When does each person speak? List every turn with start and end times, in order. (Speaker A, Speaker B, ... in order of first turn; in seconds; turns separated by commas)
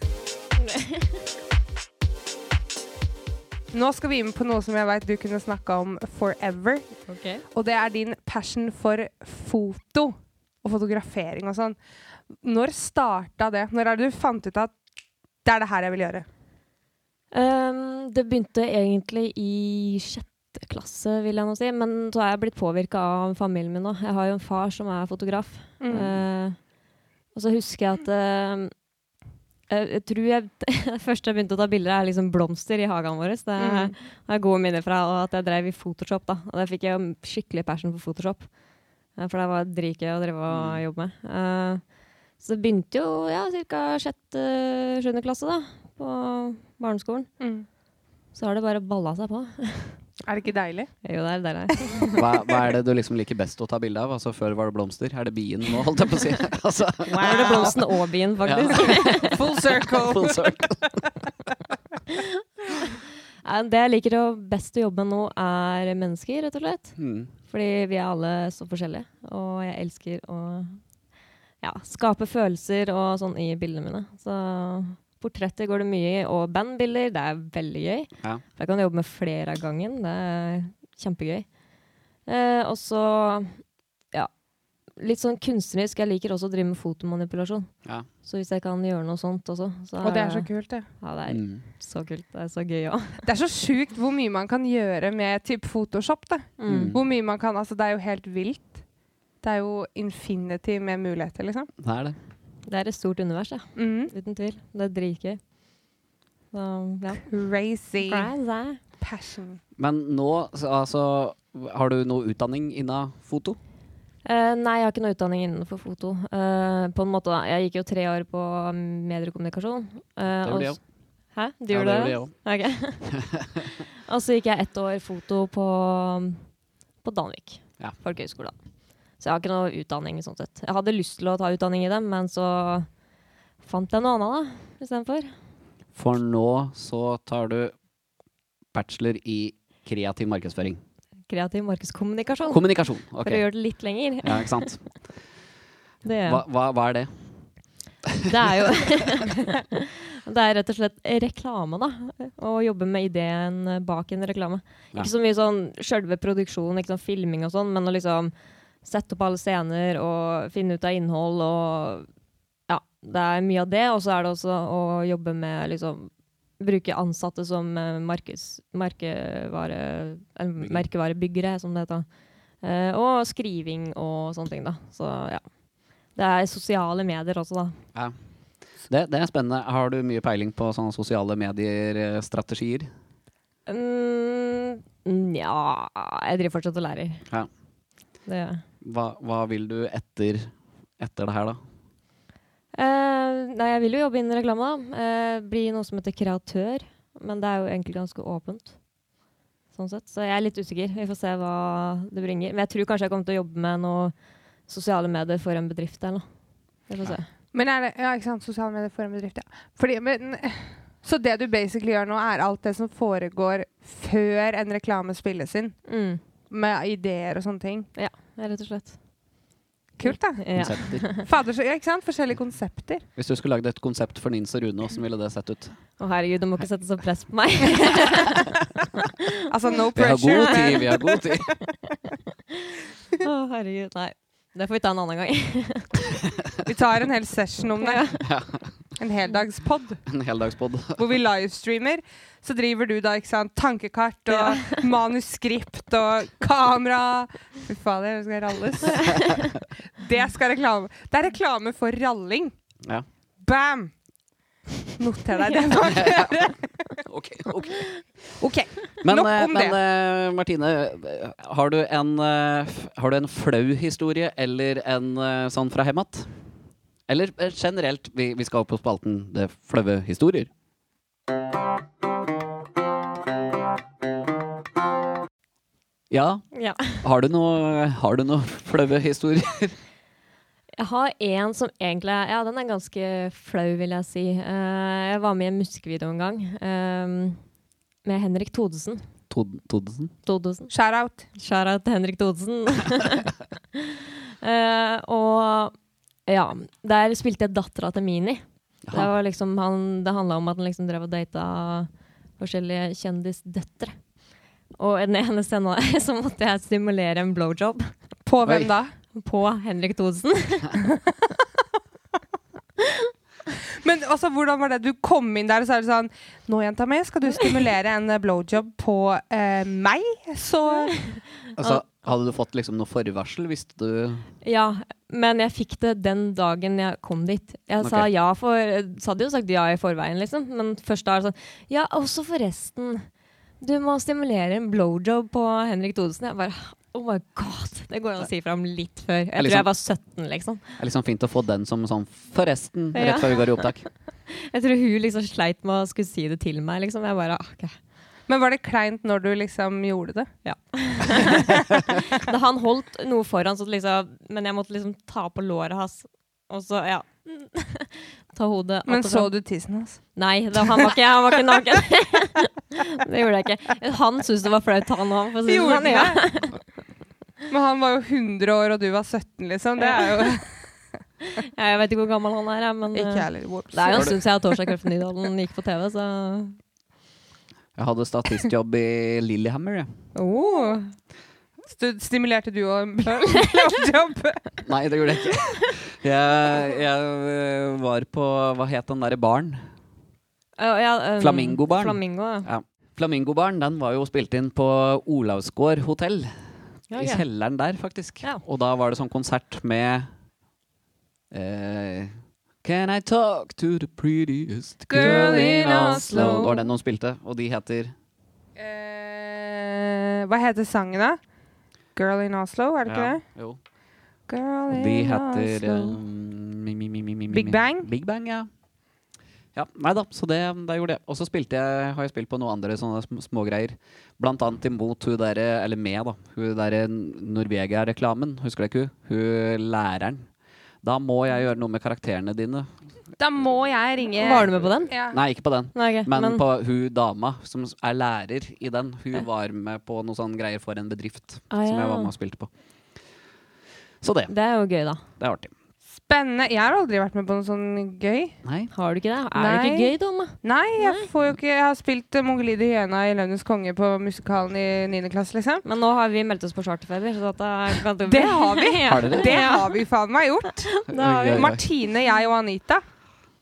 Speaker A: 0.7-1.1, Speaker B: 3.7-6.9, Speaker A: 7.1-7.4, Speaker B: 7.5-11.8, Speaker B: 12.3-14.7, Speaker B: 15.4-16.2, Speaker A: 17.3-26.6, Speaker B: 25.8-26.1, Speaker A: 27.3-28.7, Speaker A: 29.7-38.5, Speaker B: 33.6-33.9, Speaker A: 39.2-41.8, Speaker C: 40.5-40.8, Speaker A: 42.4-47.3, Speaker B: 47.4-47.7, Speaker A: 48.3-50.0, Speaker B: 50.2-50.9, Speaker A: 51.0-52.2, Speaker C: 52.1-57.8, Speaker B: 57.1-57.9, Speaker A: 57.1-59.4, Speaker C: 58.4-61.1, Speaker B: 58.7-60.9, Speaker A: 62.1-67.0, Speaker C: 67.0-67.3, Speaker A: 67.5-70.8, Speaker A: 71.6-81.5, Speaker A: 82.3-83.6, Speaker A: 85.0-87.7, Speaker A: 88.2-90.5, Speaker B: 90.0-90.8, Speaker A: 91.0-93.2, Speaker C: 91.3-91.6, Speaker B: 93.2-98.8, Speaker A: 96.6-96.9, Speaker C: 96.7-97.0, Speaker B: 99.4-101.7, Speaker C: 101.8-102.2, Speaker A: 102.7-105.4, Speaker B: 103.8-104.1, Speaker A: 106.5-107.3, Speaker B: 107.2-108.3, Speaker A: 108.0-108.8, Speaker B: 109.0-109.6, Speaker C: 109.8-113.6, Speaker A: 114.2-120.8, Speaker C: 120.4-120.8, Speaker A: 121.3-123.1, Speaker C: 121.7-122.3, Speaker C: 123.1-123.6, Speaker A: 124.0-126.4, Speaker A: 127.0-128.5, Speaker A: 129.2-132.9, Speaker A: 133.6-135.3, Speaker C: 135.9-137.7, Speaker C: 138.7-140.8, Speaker A: 141.3-144.7, Speaker C: 142.5-143.4, Speaker C: 144.2-144.8, Speaker A: 146.0-146.4, Speaker C: 146.2-147.1, Speaker A: 148.2-158.3, Speaker A: 158.8-162.1, Speaker A: 162.7-172.1, Speaker C: 170.6-170.9, Speaker A: 172.6-175.4, Speaker A: 176.2-177.8, Speaker C: 178.9-182.9, Speaker A: 183.7-187.2, Speaker A: 188.3-188.6, Speaker C: 188.8-191.6, Speaker A: 192.7-198.7, Speaker A: 199.7-204.1, Speaker A: 204.7-206.2, Speaker A: 206.9-207.3, Speaker B: 207.5-215.8, Speaker A: 215.9-216.2, Speaker B: 216.5-217.9, Speaker A: 217.9-219.0, Speaker B: 220.0-220.5, Speaker A: 220.0-221.2, Speaker C: 220.5-221.1, Speaker B: 221.1-223.0, Speaker C: 223.2-225.8, Speaker A: 226.0-229.3, Speaker B: 229.5-231.2, Speaker C: 229.9-231.5, Speaker A: 230.5-230.8, Speaker A: 232.5-236.2, Speaker B: 236.6-238.1, Speaker A: 237.8-238.2, Speaker C: 238.2-238.7, Speaker B: 239.0-240.0, Speaker C: 240.1-241.0, Speaker B: 241.0-249.2, Speaker A: 244.4-244.8, Speaker B: 249.9-252.5, Speaker B: 253.4-253.9, Speaker B: 255.0-256.7, Speaker C: 255.9-256.3, Speaker C: 257.0-257.9, Speaker B: 258.4-259.8, Speaker C: 259.0-266.3, Speaker C: 267.1-270.5, Speaker C: 276.1-276.4, Speaker A: 276.5-277.0, Speaker C: 277.0-279.7, Speaker A: 280.8-287.4, Speaker A: 288.0-289.0, Speaker C: 289.3-290.1, Speaker A: 290.2-290.7, Speaker B: 290.7-291.3, Speaker A: 291.4-295.7, Speaker A: 296.3-303.9, Speaker A: 304.8-307.9, Speaker B: 308.2-308.9, Speaker A: 309.1-310.9, Speaker A: 312.8-313.1, Speaker B: 313.6-321.0, Speaker C: 321.6-324.3, Speaker A: 324.4-333.1, Speaker C: 327.8-328.1, Speaker A: 333.6-340.8, Speaker C: 339.4-339.7, Speaker C: 340.8-343.9, Speaker A: 342.9-343.7, Speaker A: 344.3-347.7, Speaker B: 348.3-350.3, Speaker A: 350.4-359.3, Speaker B: 351.2-351.6, Speaker B: 358.9-360.0, Speaker A: 360.1-366.6, Speaker B: 360.5-360.9, Speaker B: 365.4-366.3, Speaker B: 367.5-370.6, Speaker A: 369.9-370.4, Speaker A: 371.2-376.6, Speaker B: 372.9-374.6, Speaker C: 377.8-379.9, Speaker A: 380.1-380.9, Speaker B: 380.3-380.8, Speaker B: 381.6-384.5, Speaker C: 384.6-389.6, Speaker A: 390.6-392.5, Speaker C: 391.2-396.3, Speaker A: 396.9-397.2, Speaker C: 396.9-400.1, Speaker C: 401.3-407.9, Speaker B: 404.9-406.6, Speaker A: 405.0-406.6, Speaker B: 408.6-411.2, Speaker B: 411.9-413.2, Speaker C: 412.9-413.6, Speaker B: 414.3-416.0, Speaker C: 414.7-418.5, Speaker B: 417.3-417.9, Speaker C: 419.5-430.3, Speaker C: 430.8-432.7, Speaker B: 433.2-435.2, Speaker A: 434.2-434.9, Speaker C: 435.1-442.5, Speaker A: 435.7-436.4, Speaker A: 441.5-442.1, Speaker C: 444.0-444.3, Speaker A: 444.3-445.0, Speaker C: 445.2-445.5, Speaker B: 446.0-448.4, Speaker C: 448.4-448.7, Speaker A: 448.7-451.1, Speaker B: 449.3-455.6, Speaker A: 455.6-459.8, Speaker B: 458.0-460.7, Speaker C: 458.8-459.4, Speaker A: 460.7-461.5, Speaker C: 460.9-461.6, Speaker B: 461.3-462.8